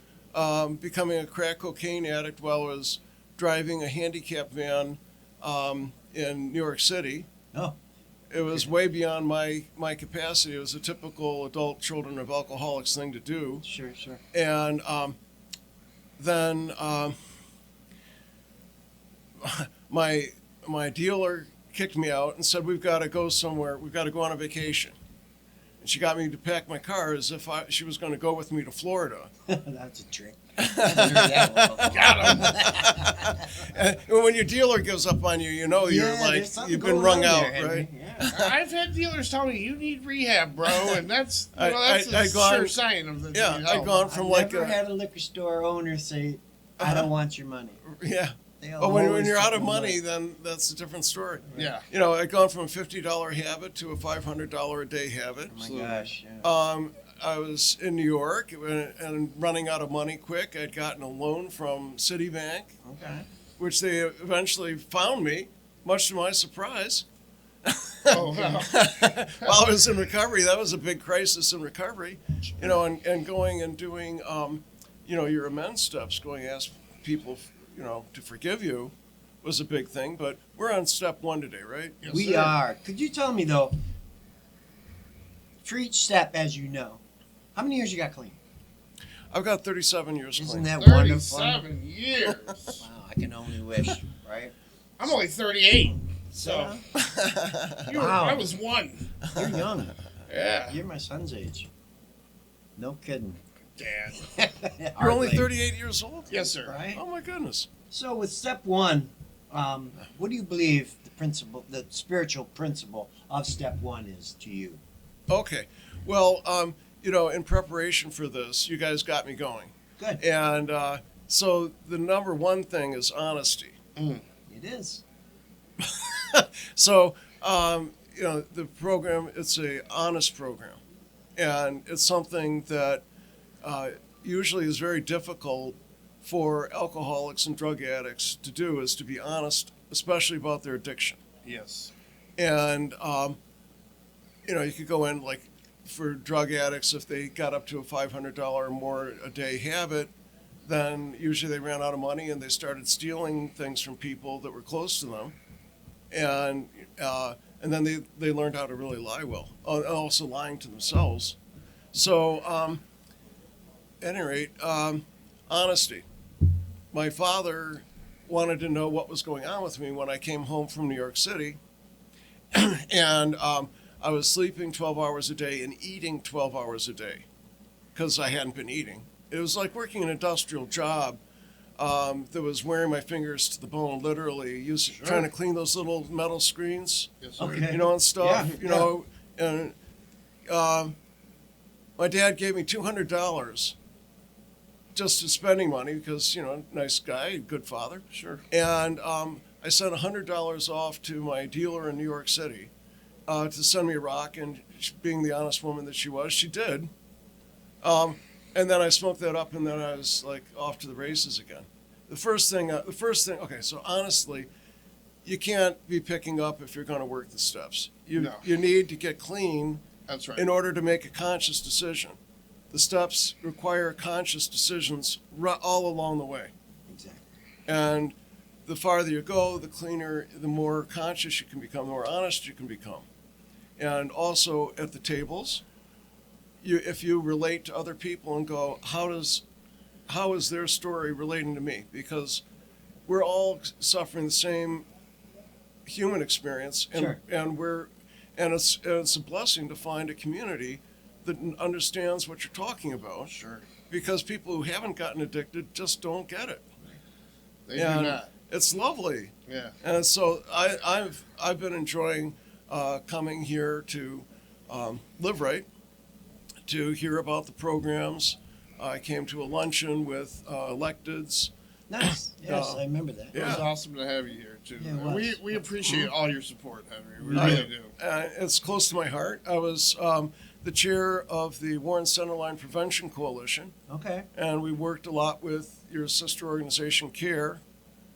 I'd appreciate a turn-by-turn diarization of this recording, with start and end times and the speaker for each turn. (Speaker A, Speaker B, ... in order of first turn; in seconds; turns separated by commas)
Speaker A: 0.3-7.3, Speaker A: 8.3-13.6, Speaker B: 13.6-14.2, Speaker A: 14.3-15.2, Speaker A: 16.2-17.1, Speaker A: 19.4-24.9, Speaker A: 25.8-29.3, Speaker B: 29.5-33.5, Speaker A: 30.6-38.5, Speaker C: 31.8-32.6, Speaker B: 35.8-38.3, Speaker C: 38.3-44.1, Speaker A: 40.7-41.0, Speaker A: 41.5-42.8, Speaker A: 43.3-44.8, Speaker B: 43.8-47.8, Speaker A: 46.8-47.1, Speaker A: 47.8-55.6, Speaker B: 48.6-50.0, Speaker C: 51.5-51.9, Speaker B: 55.5-56.5, Speaker C: 55.5-56.1, Speaker A: 56.4-62.7, Speaker B: 62.8-63.2, Speaker A: 63.6-67.0, Speaker A: 67.6-82.0, Speaker C: 68.1-69.6, Speaker B: 72.4-72.8, Speaker C: 82.0-82.5, Speaker B: 82.1-83.8, Speaker B: 85.6-87.0, Speaker B: 87.5-88.4, Speaker A: 89.3-90.7, Speaker B: 90.3-91.7, Speaker C: 90.8-92.8, Speaker B: 92.8-95.1, Speaker C: 95.0-96.8, Speaker B: 95.9-96.8, Speaker A: 97.0-98.1, Speaker C: 97.8-99.1, Speaker B: 97.9-98.5, Speaker B: 99.3-100.0, Speaker C: 100.3-100.8, Speaker B: 100.7-101.7, Speaker B: 102.8-103.4, Speaker C: 103.8-104.3, Speaker B: 104.3-105.5, Speaker A: 105.0-106.3, Speaker C: 106.3-106.8, Speaker B: 106.6-107.0, Speaker A: 106.9-107.7, Speaker B: 107.9-114.8, Speaker A: 115.3-123.8, Speaker C: 124.0-124.2, Speaker B: 124.5-125.0, Speaker A: 125.8-130.8, Speaker A: 131.3-133.0, Speaker A: 133.6-141.2, Speaker C: 141.4-141.9, Speaker A: 142.4-143.4, Speaker A: 144.4-150.1, Speaker A: 150.6-155.3, Speaker A: 156.1-161.4, Speaker A: 161.9-162.8, Speaker A: 164.0-166.0, Speaker A: 166.9-171.6, Speaker A: 172.5-177.2, Speaker A: 177.9-181.2, Speaker A: 181.8-189.7, Speaker C: 184.9-185.3, Speaker C: 187.2-187.7, Speaker B: 187.4-188.9, Speaker A: 190.5-190.9, Speaker A: 192.0-193.8, Speaker A: 194.9-202.7, Speaker C: 198.1-198.4, Speaker A: 203.3-206.9, Speaker A: 207.8-214.5, Speaker A: 215.2-219.8, Speaker C: 218.1-218.4, Speaker C: 220.1-220.5, Speaker A: 220.3-222.2, Speaker A: 222.7-226.5, Speaker B: 226.9-227.2, Speaker A: 227.7-228.1, Speaker A: 228.7-233.1, Speaker A: 233.8-235.6, Speaker A: 236.6-239.4, Speaker A: 240.1-242.4, Speaker A: 243.1-244.9, Speaker A: 245.8-253.3, Speaker B: 246.9-247.2, Speaker C: 253.3-253.7, Speaker A: 253.9-256.6, Speaker C: 257.7-258.3, Speaker A: 257.7-265.6, Speaker C: 259.5-259.7, Speaker A: 266.6-271.5, Speaker B: 271.9-273.6, Speaker A: 272.0-272.8, Speaker A: 273.3-273.7, Speaker C: 273.3-277.9, Speaker B: 274.8-275.6, Speaker B: 277.2-277.7, Speaker A: 277.3-283.7, Speaker B: 283.9-284.3, Speaker A: 284.3-287.6